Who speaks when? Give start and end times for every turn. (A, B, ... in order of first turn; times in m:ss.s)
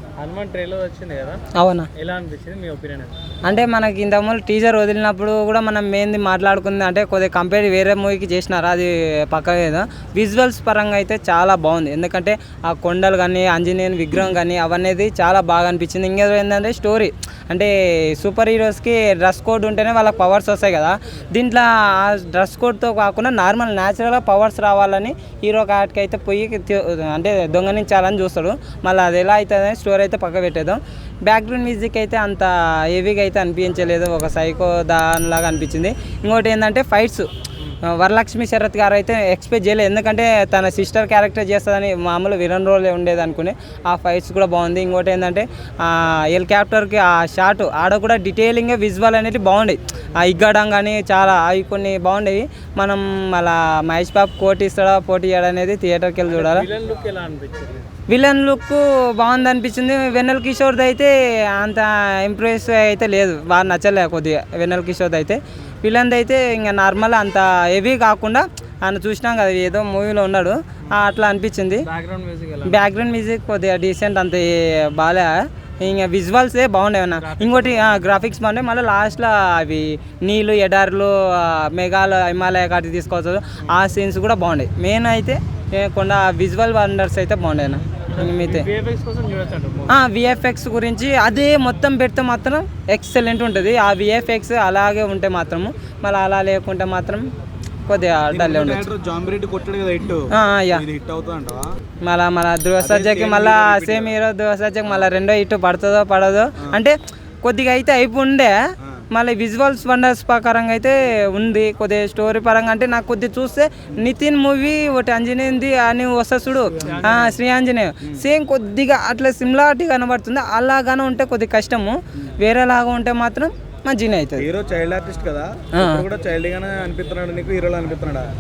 0:00.2-0:01.4 A
0:01.6-0:01.9 B
0:02.0-0:03.2 A
0:03.4-0:37.3 B
0:37.9-0:56.7 B
0:56.3-0:57.9 A
0:58.1-1:11.9 B
1:11.8-1:12.8 A
1:12.6-1:28.7 B
1:17.2-1:18.0 A
1:28.1-1:30.0 A
1:29.9-1:37.3 B
1:37.9-1:38.9 B
1:38.3-1:41.7 C
1:40.3-1:40.8 B
1:42.0-1:48.5 B
1:42.8-1:44.2 C
1:49.1-2:04.5 B
1:56.8-1:57.4 A
1:56.8-1:57.2 C
2:04.4-2:08.3 C
2:05.8-2:06.0 B